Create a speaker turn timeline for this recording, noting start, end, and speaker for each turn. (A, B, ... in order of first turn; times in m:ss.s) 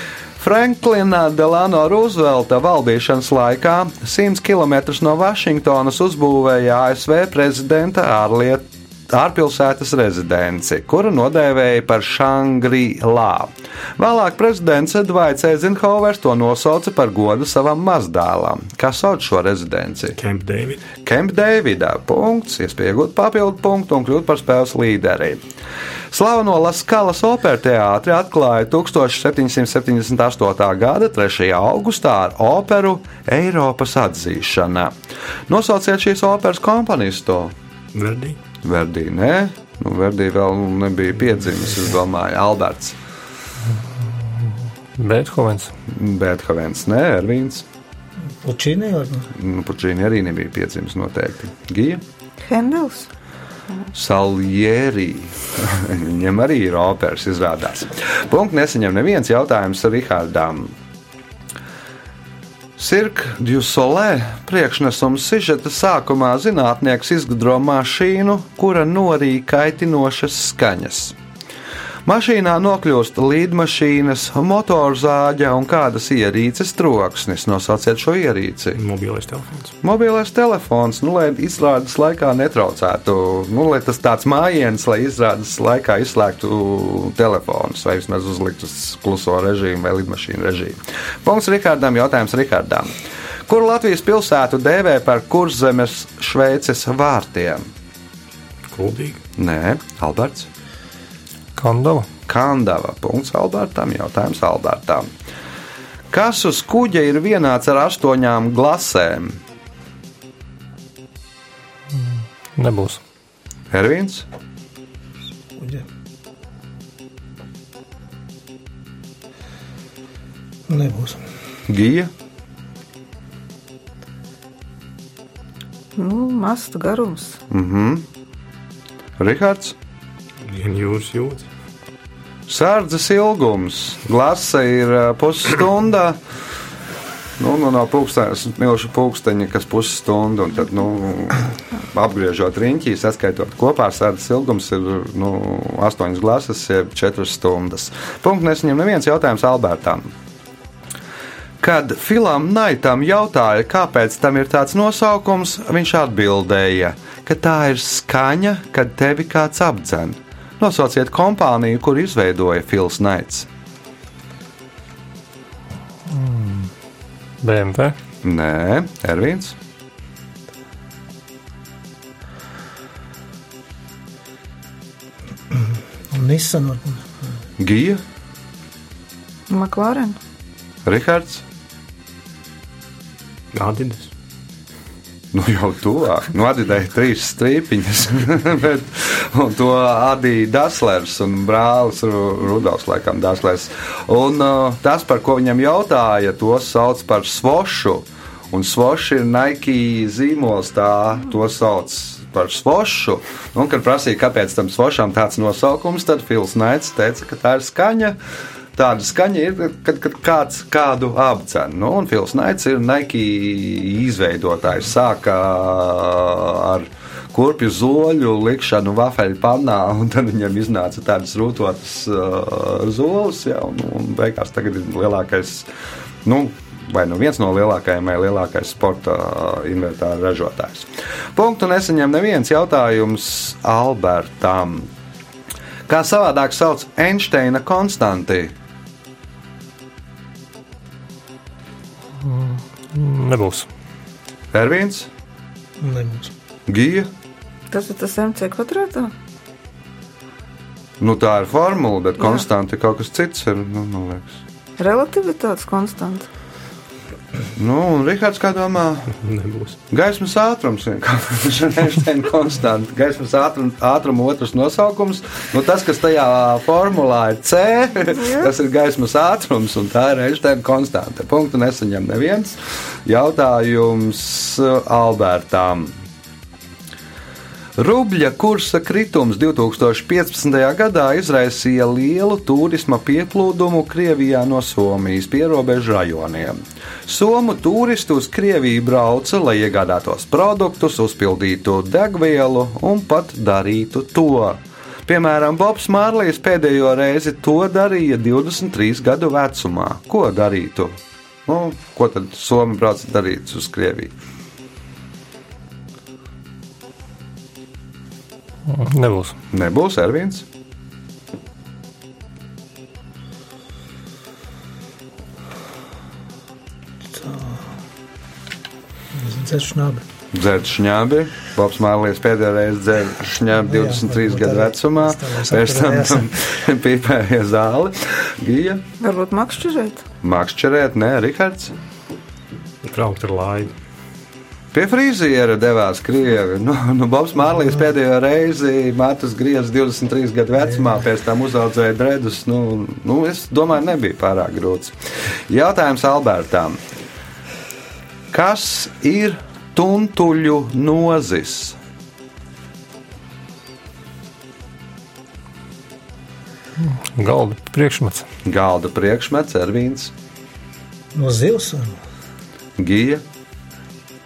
0:00.4-0:20.2 A
0:20.2-0:20.8 B
0:21.0-0:25.4 A
0:26.1-0:34.9 A
0:35.5-0:37.5 A
0:37.9-0:38.4 B
0:38.6-0:43.0 A
0:45.0-0:45.7 C
0:45.9-0:47.6 A
0:48.4-0:49.3 D
0:49.4-0:52.0 A
0:52.4-0:53.1 E
0:53.9-1:00.7 A
1:02.8-1:11.2 A
1:12.1-1:18.8 A
1:18.8-1:19.7 B
1:19.8-1:32.9 A
1:33.5-1:37.7 A
1:38.7-1:39.2 B
1:39.4-1:40.5 A
1:41.6-1:42.1 C
1:42.3-1:45.1 A
1:46.1-1:49.4 A
1:52.0-1:53.0 C
1:53.7-1:54.2 A
1:55.6-1:55.8 D
2:00.7-2:01.3 D
2:01.7-2:02.1 A
2:06.0-2:07.4 E
2:07.5-2:08.0 A
2:09.2-2:09.8 A
2:10.4-2:11.5 B
2:12.5-2:16.2 A
2:17.4-2:30.1 A
2:31.6-2:43.5 A
2:46.1-2:46.7 C
2:47.4-2:48.0 C
2:48.2-2:49.6 A
2:55.5-2:57.4 D
2:57.6-2:58.0 A
2:59.5-3:00.2 E
3:00.8-3:01.4 A
3:03.5-3:04.1 B
3:05.3-3:28.2 A
3:28.8-3:45.7 A
3:46.2-3:54.9 A
3:55.9-3:58.5 A
4:02.2-4:03.7 C
4:04.5-4:05.1 A
4:05.8-4:06.3 D
4:06.7-4:07.1 A
4:07.7-4:09.1 E
4:11.0-4:14.4 A
4:14.8-4:16.3 E
4:17.6-4:19.2 A
4:19.2-4:19.8 B
4:19.9-4:35.9 A
4:28.2-4:28.5 E
4:37.8-5:04.1 A
5:08.7-5:09.4 C
5:09.5-5:10.5 A
5:17.0-5:17.8 D
5:19.1-5:20.0 D
5:20.3-5:28.8 A
5:23.5-5:26.3 D
5:29.0-5:30.0 E
5:30.2-5:31.8 A
5:32.8-5:33.7 B
5:34.7-5:45.0 A
5:45.5-5:46.8 A
5:48.3-5:51.8 A
5:56.8-5:58.3 C
5:58.4-6:00.1 A
6:01.1-6:02.0 D
6:02.8-6:03.2 A